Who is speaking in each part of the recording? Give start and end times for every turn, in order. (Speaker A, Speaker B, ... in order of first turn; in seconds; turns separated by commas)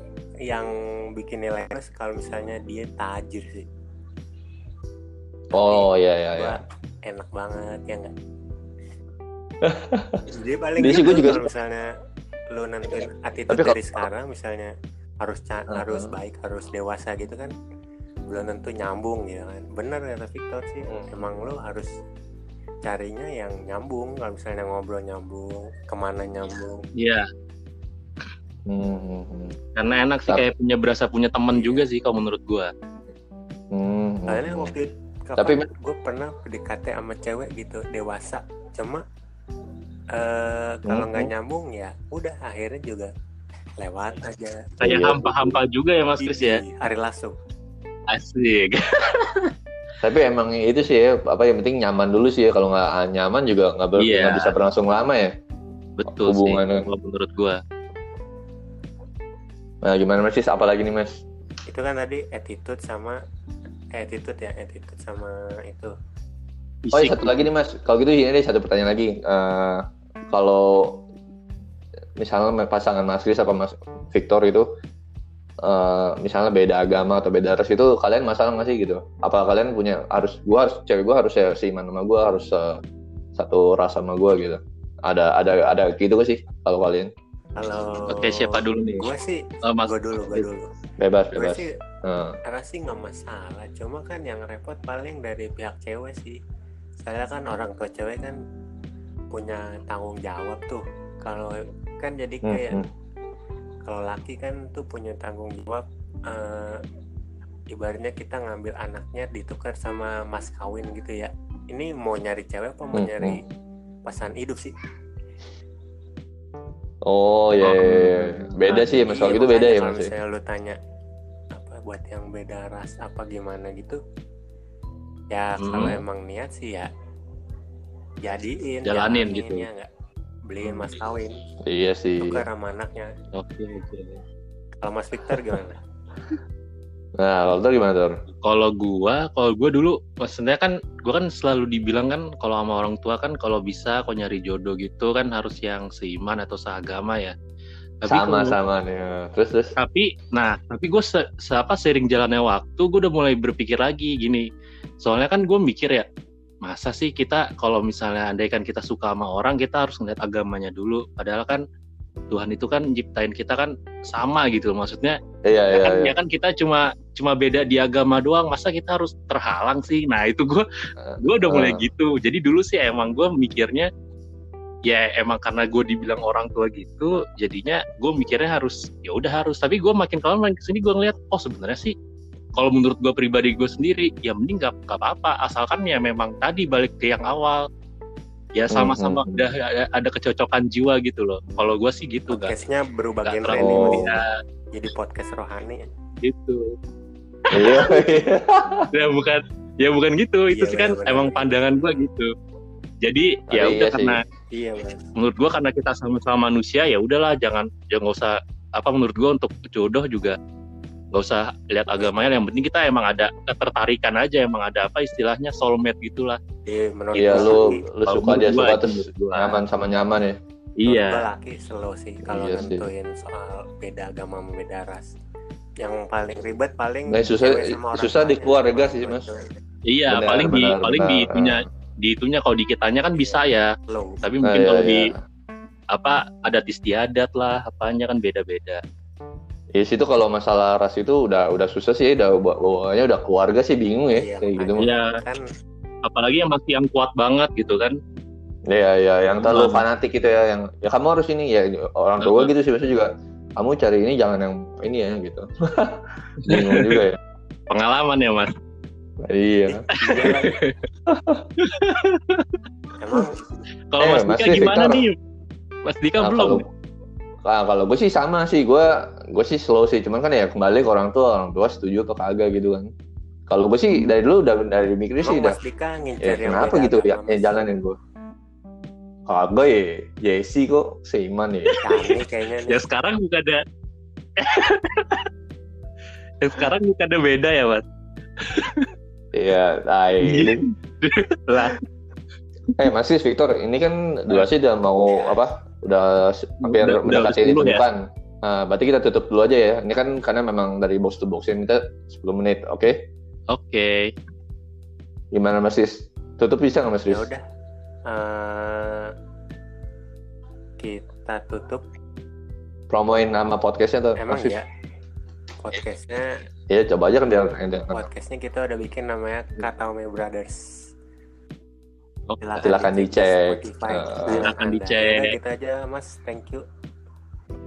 Speaker A: 0.5-3.7, Speaker B: 5.5-6.6, Speaker A: 5.5-8.1, Speaker B: 9.6-10.2, Speaker A: 10.3-11.8, Speaker B: 10.8-11.5, Speaker A: 12.5-17.5, Speaker B: 13.5-14.0, Speaker B: 15.7-16.1, Speaker A: 18.3-21.9, Speaker A: 22.8-26.8, Speaker C: 26.9-27.2, Speaker B: 28.7-29.6, Speaker C: 29.7-32.7, Speaker A: 31.5-31.9, Speaker B: 33.7-34.7, Speaker A: 34.3-39.0, Speaker B: 35.4-35.7, Speaker A: 40.1-43.1, Speaker B: 40.9-41.3, Speaker A: 43.8-44.7, Speaker C: 44.8-46.6, Speaker B: 44.8-45.4, Speaker A: 46.2-47.4, Speaker C: 48.1-49.5, Speaker B: 50.0-55.3, Speaker C: 54.0-54.5, Speaker C: 56.0-57.6, Speaker B: 56.1-56.9, Speaker B: 59.8-61.2, Speaker A: 61.7-63.2, Speaker A: 63.9-65.9, Speaker C: 66.8-67.3, Speaker B: 66.9-71.0, Speaker B: 72.2-74.6, Speaker B: 75.6-82.8, Speaker B: 83.3-87.1, Speaker A: 87.5-90.7, Speaker C: 88.1-89.1, Speaker C: 89.6-90.5, Speaker B: 91.0-92.4, Speaker A: 91.3-91.7, Speaker A: 92.5-96.4, Speaker A: 97.0-98.3, Speaker A: 99.3-102.8, Speaker B: 102.4-102.8, Speaker A: 103.8-106.8, Speaker A: 107.7-113.4, Speaker B: 112.9-113.4, Speaker A: 114.0-114.7, Speaker B: 117.0-120.1, Speaker C: 117.6-118.5, Speaker A: 118.7-120.8, Speaker A: 121.5-124.0, Speaker A: 125.3-126.9, Speaker C: 125.6-126.0, Speaker A: 128.2-129.9, Speaker C: 128.8-129.7, Speaker A: 130.5-131.3, Speaker B: 131.6-132.4, Speaker A: 132.2-133.1, Speaker C: 133.3-134.2, Speaker A: 134.8-135.8, Speaker B: 137.2-138.1, Speaker C: 138.4-147.3, Speaker C: 148.0-148.6, Speaker B: 148.1-149.7, Speaker C: 149.8-154.4, Speaker C: 155.0-156.1, Speaker C: 156.6-161.6, Speaker C: 162.3-165.2, Speaker B: 165.4-166.1, Speaker C: 165.7-170.7, Speaker B: 171.0-171.8, Speaker C: 171.2-173.9, Speaker C: 174.9-181.9, Speaker C: 182.5-187.6, Speaker C: 188.6-192.5, Speaker B: 188.7-189.5, Speaker A: 192.3-194.2, Speaker C: 193.2-194.3, Speaker B: 193.5-194.1, Speaker A: 194.7-195.9, Speaker C: 196.2-196.6, Speaker C: 197.5-198.0, Speaker B: 197.5-198.9, Speaker C: 198.9-202.3, Speaker A: 200.5-202.0, Speaker C: 203.0-204.2, Speaker B: 203.5-204.2, Speaker A: 204.5-205.0, Speaker C: 205.2-210.3, Speaker C: 211.1-216.4, Speaker A: 212.0-212.4, Speaker A: 216.7-217.8, Speaker C: 217.1-219.6, Speaker B: 217.1-220.4, Speaker C: 220.8-221.2, Speaker A: 220.8-225.1, Speaker B: 222.2-222.9, Speaker A: 225.8-229.5, Speaker B: 227.1-229.2, Speaker C: 229.8-235.1, Speaker B: 230.1-231.7, Speaker A: 233.2-234.2, Speaker B: 234.4-235.2, Speaker C: 235.9-238.8, Speaker B: 239.7-244.9, Speaker A: 244.2-245.4, Speaker C: 244.8-245.1, Speaker C: 246.0-247.9, Speaker B: 248.7-257.2, Speaker C: 249.4-249.8, Speaker C: 252.2-252.5, Speaker C: 256.4-257.1, Speaker C: 257.7-258.5, Speaker B: 259.2-260.3, Speaker A: 259.9-260.6, Speaker C: 260.1-260.6, Speaker B: 261.1-261.4, Speaker C: 261.6-262.5, Speaker A: 263.0-263.4, Speaker C: 263.9-265.1, Speaker B: 264.0-265.1, Speaker C: 265.9-266.6, Speaker B: 266.2-266.6, Speaker B: 267.4-272.9, Speaker B: 273.5-275.6, Speaker A: 275.2-277.7, Speaker B: 276.2-278.0, Speaker B: 279.3-281.8, Speaker C: 281.7-282.1, Speaker A: 281.8-282.8, Speaker C: 282.6-283.6, Speaker C: 284.4-285.2, Speaker C: 286.4-287.8, Speaker C: 288.4-288.9, Speaker B: 289.3-290.6, Speaker C: 290.2-291.8, Speaker B: 292.8-303.1, Speaker C: 296.6-297.8, Speaker C: 303.5-304.1, Speaker B: 305.3-307.3, Speaker A: 307.1-307.4, Speaker A: 308.1-309.1, Speaker A: 310.8-311.8, Speaker B: 312.9-314.6, Speaker A: 314.2-314.6, Speaker A: 315.6-316.3, Speaker B: 316.7-318.1, Speaker A: 317.9-320.9, Speaker C: 322.3-322.7, Speaker A: 322.4-326.6, Speaker B: 322.6-324.5, Speaker C: 324.3-325.4